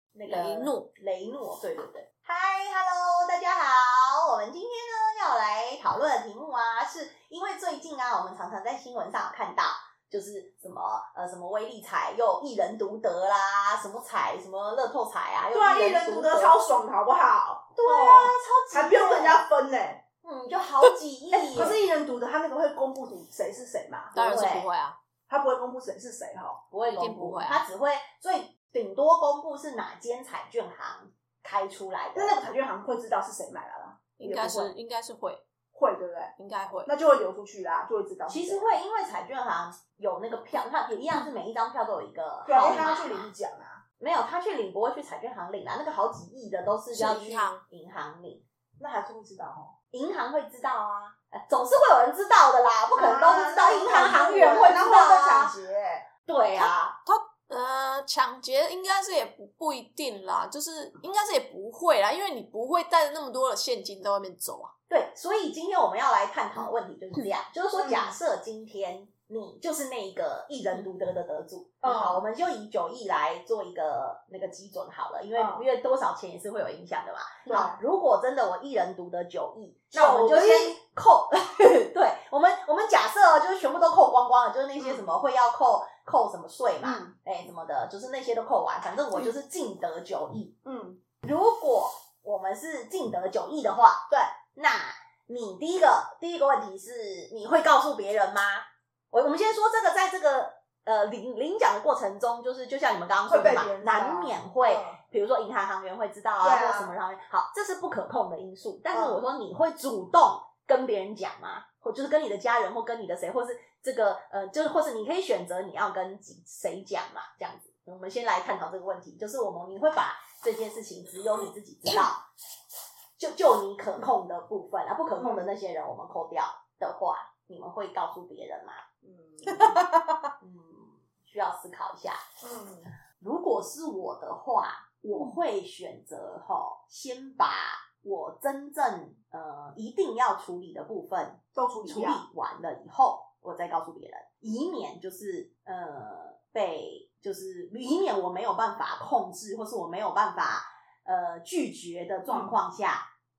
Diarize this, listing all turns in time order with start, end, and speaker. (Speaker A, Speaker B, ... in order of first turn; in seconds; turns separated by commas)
Speaker A: 0.1-16.6, Speaker B: 0.3-0.9, Speaker C: 15.5-20.0, Speaker A: 17.8-19.4, Speaker A: 20.2-21.8, Speaker C: 21.3-24.1, Speaker B: 24.1-25.0, Speaker A: 24.1-24.7, Speaker C: 25.3-26.6, Speaker A: 26.7-32.4, Speaker B: 26.9-27.6, Speaker C: 32.1-34.7, Speaker B: 34.2-35.4, Speaker C: 35.7-36.3, Speaker B: 36.4-36.9, Speaker C: 36.9-38.8, Speaker A: 38.3-43.3, Speaker C: 42.5-43.8, Speaker A: 44.0-48.4, Speaker B: 46.9-47.6, Speaker C: 48.8-49.7, Speaker A: 49.9-55.5, Speaker C: 52.9-56.1, Speaker A: 56.3-57.0, Speaker B: 56.6-64.7, Speaker A: 64.9-90.6, Speaker C: 67.8-68.2, Speaker C: 71.8-72.2, Speaker C: 75.3-75.7, Speaker C: 77.5-77.8, Speaker C: 79.9-80.7, Speaker C: 84.8-85.0, Speaker C: 86.8-87.2, Speaker C: 90.6-91.0, Speaker A: 91.2-122.2, Speaker C: 103.3-105.0, Speaker C: 106.4-106.9, Speaker C: 108.9-109.2, Speaker A: 123.2-128.8, Speaker C: 125.2-125.5, Speaker C: 129.0-129.8, Speaker A: 130.4-132.2, Speaker C: 132.4-132.9, Speaker A: 133.2-153.1, Speaker C: 141.6-142.2, Speaker C: 152.3-152.6